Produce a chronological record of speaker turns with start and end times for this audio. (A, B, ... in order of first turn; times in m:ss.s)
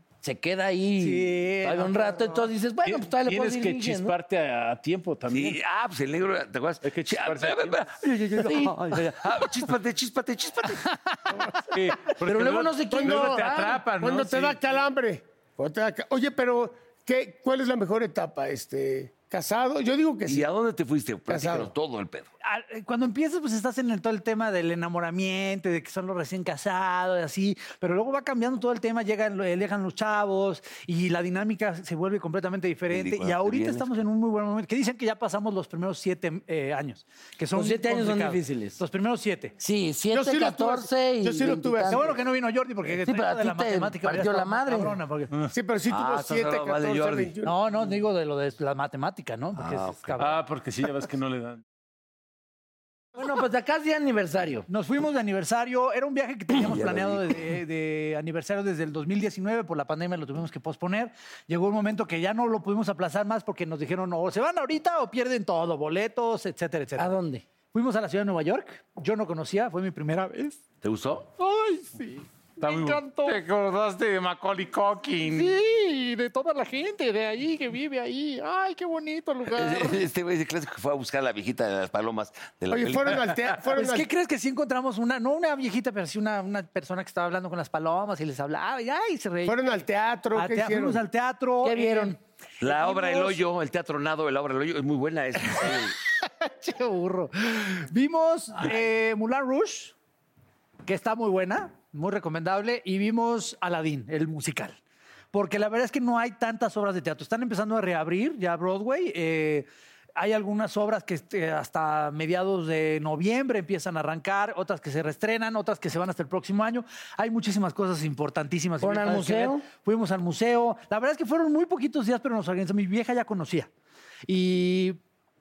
0:00.2-0:04.1 A
0:01.0-0:02.5 B
0:02.8-0:05.6 C
0:05.3-0:07.9 D
0:06.8-0:07.9 C
0:08.0-0:09.4 B
0:08.4-0:08.8 A
0:09.0-0:10.8 D
0:10.8-0:12.2 B
0:11.7-0:14.8 C
0:12.2-0:13.8 A
0:12.9-0:20.5 E
0:20.2-0:22.3 D
0:21.3-0:21.7 E
0:22.4-0:39.6 B
0:32.9-0:34.0 D
0:37.5-0:38.8 A
0:39.6-0:42.2 A
0:40.1-0:42.2 E
0:41.8-0:45.4 B
0:42.9-0:45.0 A
0:45.5-0:47.6 E
0:45.9-0:47.3 D
0:47.4-0:50.4 B
0:50.2-0:51.6 C
0:53.2-0:54.7 A
0:54.7-1:10.6 B
0:56.6-0:57.2 D
1:07.0-1:07.4 A
1:10.8-1:11.3 D
1:11.4-1:13.4 B
1:12.6-1:15.6 C
1:15.2-1:20.0 B
1:19.5-1:23.6 D
1:22.7-1:24.1 E
1:23.7-1:29.6 B
1:29.4-1:31.0 E
1:30.3-1:33.4 B
1:31.6-1:32.2 A
1:32.6-1:35.9 D
1:35.4-1:35.9 B
1:36.4-1:39.9 B
1:40.8-1:44.8 B
1:45.3-2:03.7 B
1:58.8-1:59.7 A
2:04.3-2:05.0 B